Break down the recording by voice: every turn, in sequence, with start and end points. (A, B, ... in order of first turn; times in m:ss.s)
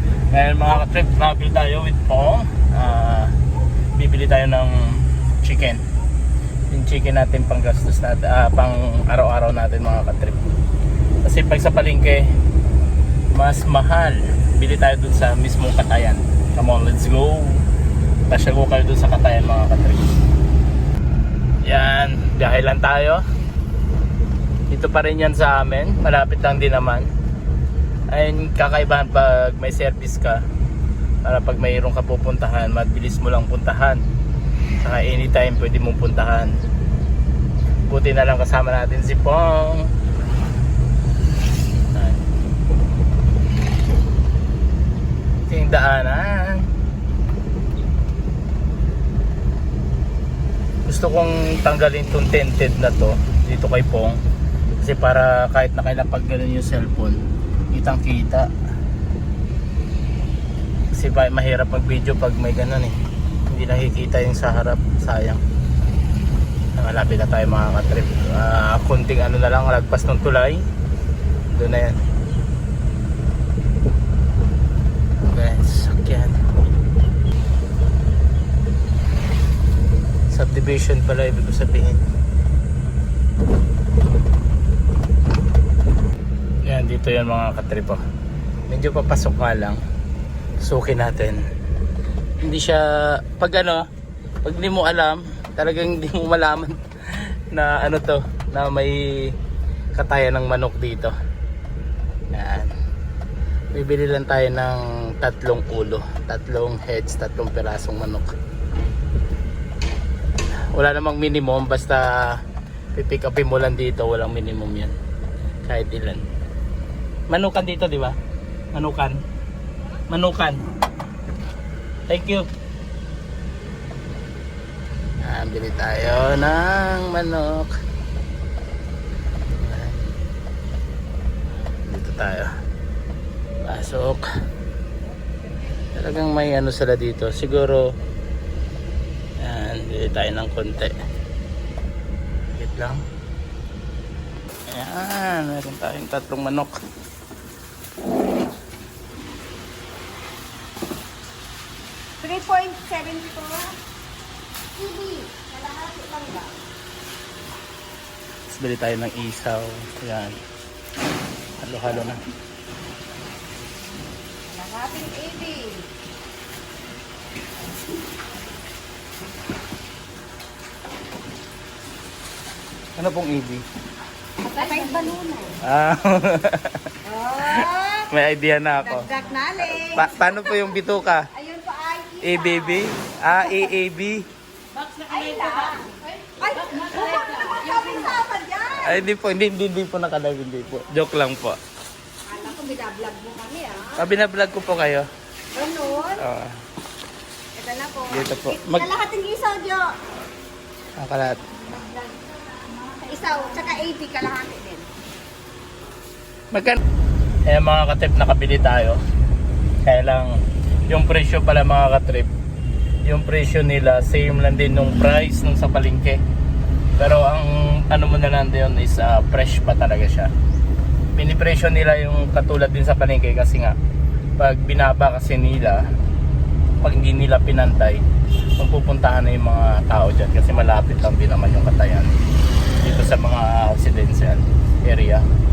0:00.3-0:03.3 A
0:04.0-0:05.8 A
0:06.7-0:10.5 A
0:11.2-0:12.3 A
0:13.3-0:17.7 A
0:18.3-0:20.1 A
0:21.6-0:23.2 A
0:24.7-0:27.1 A
0:28.1-0:30.4 A
0:31.2-0:34.0 A
0:34.8-0:36.6 A
0:37.9-0:39.9 A
0:41.9-0:42.2 A
0:45.5-0:46.7 A
0:50.9-0:54.2 A
0:54.8-0:57.2 A
0:57.7-0:58.5 A
1:00.9-1:03.0 A
1:03.5-1:05.4 A
1:06.8-1:10.6 A
1:11.5-1:12.0 A
1:15.3-1:16.4 A
1:20.3-1:22.0 A
1:26.6-1:28.0 A
1:28.7-1:29.8 A
1:30.6-1:31.4 A
1:32.4-1:33.8 A
1:34.4-1:39.4 A
1:40.0-1:41.1 A
1:42.3-1:42.7 A
1:43.7-1:48.3 A
1:50.7-1:52.4 A
1:53.0-1:55.0 A
1:55.6-1:56.2 A
1:57.3-1:58.2 A
1:58.7-1:59.2 A
2:00.1-2:00.6 A
2:02.1-2:02.5 A
2:05.2-2:07.7 A
2:09.5-2:10.1 A
2:11.9-2:12.5 A
2:13.7-2:14.2 A
2:16.0-2:17.9 A
2:19.4-2:20.9 A
2:22.5-2:23.0 A
2:24.7-2:26.8 A
2:32.2-2:33.8 B
2:34.8-2:36.6 B
2:38.5-2:40.4 A
2:41.6-2:42.2 A
2:44.5-2:45.9 B
2:53.0-2:53.6 A
2:54.4-2:55.6 B
2:55.6-3:01.3 A
2:57.0-2:58.1 B
2:58.8-3:00.8 B
3:01.3-3:03.8 B
3:02.2-3:04.3 A
3:04.9-3:09.0 B
3:08.8-3:11.6 A
3:12.2-3:14.1 B
3:14.0-3:15.1 A
3:15.5-3:16.3 B
3:16.2-3:16.6 A
3:17.5-3:19.9 B
3:18.1-3:18.9 A
3:21.0-3:21.4 A
3:23.0-3:24.9 B
3:26.5-3:26.8 A
3:27.5-3:29.0 A
3:29.8-3:32.3 A
3:33.0-3:36.2 A
3:37.0-3:40.3 A
3:41.1-3:43.8 A
3:44.4-3:45.9 A
3:46.8-3:48.0 A
3:48.6-3:52.1 A
3:52.8-3:55.3 A